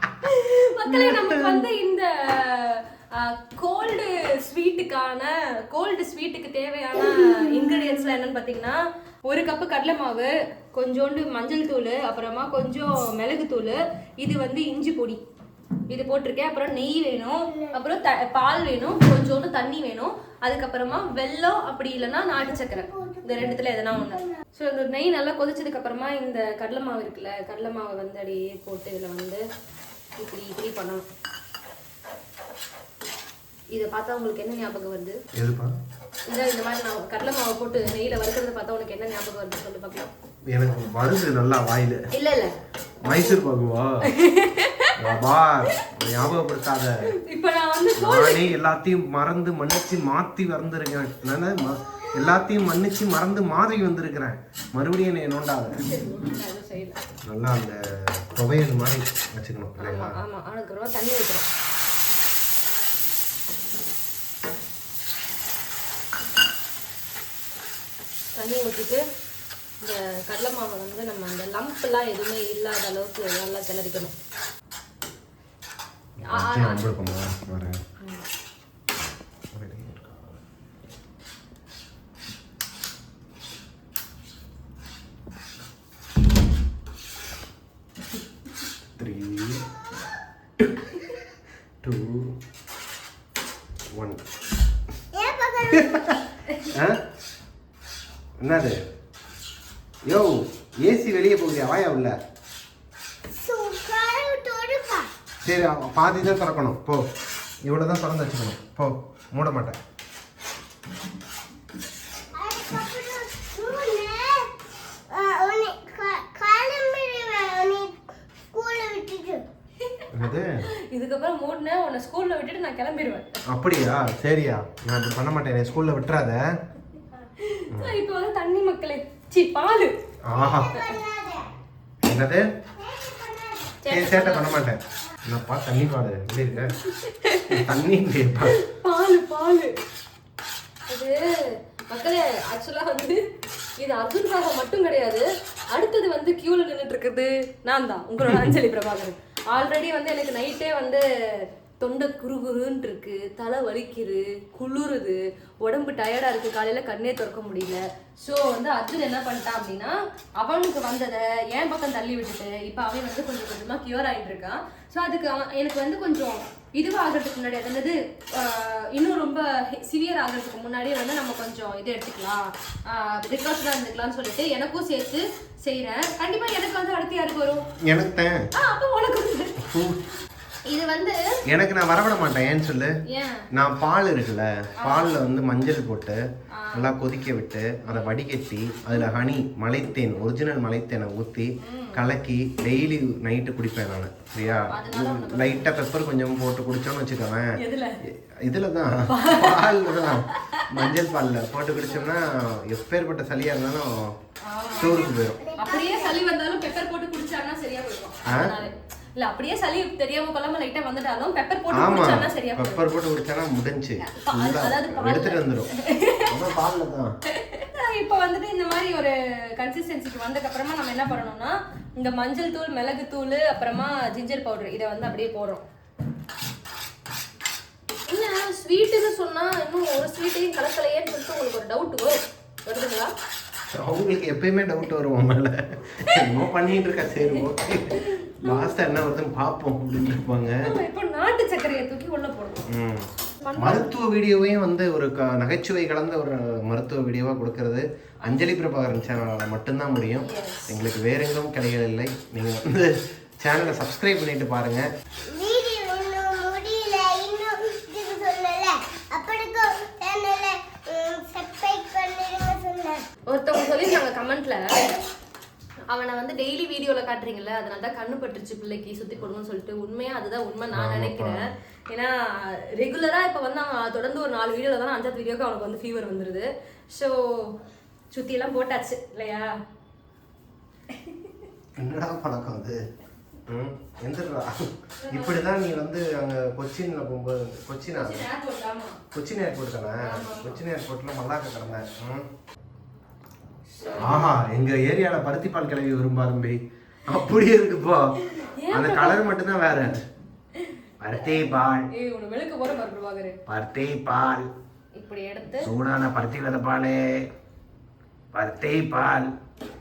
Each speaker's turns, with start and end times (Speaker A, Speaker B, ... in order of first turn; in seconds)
Speaker A: 0.2-15.2, 15.9-29.4, 30.2-31.1, 33.7-35.2, 36.3-40.1, 42.1-42.5, 43.1-43.4, 44.1-45.0, 47.1-48.5, 55.8-57.0, 59.8-61.5, 68.3-69.0, 69.8-74.1, 76.3-76.8, 120.9-123.3, 127.4-129.9, 133.8-134.7, 136.9-137.7, 138.5-139.7, 140.9-141.2, 141.9-143.2, 143.8-177.6, 178.6-179.6, 180.7-181.2, 183.1-183.4, 184.8-185.2, 186.5-186.9, 187.9-188.2, 191.6-192.1, 194.7-195.7, 197.6-198.0, 199.1-200.9, 204.4-205.0, 205.6-212.9, 214.0-216.3, 217.3-225.6, 228.1-233.1, 236.1-236.4, 237.2-238.8, 240.6-242.6, 243.4-243.9, 250.2-250.8, 263.3-265.0, 265.9-277.6, 278.1-279.5, 280.9-281.3, 285.0-285.5, 287.9-289.0, 290.1-290.6, 293.7-294.4, 298.2-299.2, 301.9-303.4, 305.0-305.7
Speaker B: 0.9-1.7, 35.3-35.7, 40.5-42.0, 43.0-44.0, 45.0-47.0, 48.0-55.8, 57.3-60.1, 76.2-77.8, 79.5-80.4, 89.0-89.7, 90.6-90.9, 91.8-92.3, 93.9-94.2, 96.7-97.0, 98.4-98.8, 100.1-102.2, 105.4-107.0, 107.7-109.8, 120.1-120.7, 123.5-126.5, 130.3-130.7, 132.0-132.4, 133.9-136.8, 137.5-138.6, 177.9-178.4, 179.6-180.0, 181.5-182.9, 183.6-186.2, 186.7-197.5, 198.1-204.1, 204.8-205.4, 208.3-208.5, 211.7-215.7, 216.3-217.1, 233.7-240.7, 242.7-254.9, 270.7-271.4, 281.8-282.8, 283.5-288.2, 289.1-292.3, 294.0-298.2, 298.7-300.0, 301.0-301.9, 303.5-304.5, 305.6-307.3, 308.3-309.3
Speaker C: 7.0-8.0, 17.5-17.8, 22.0-24.3, 89.7-90.2, 95.1-96.2, 103.3-105.1, 112.4-114.5, 115.1-118.0, 118.5-119.4, 130.3-131.5, 132.8-133.8, 204.7-206.2, 255.3-263.0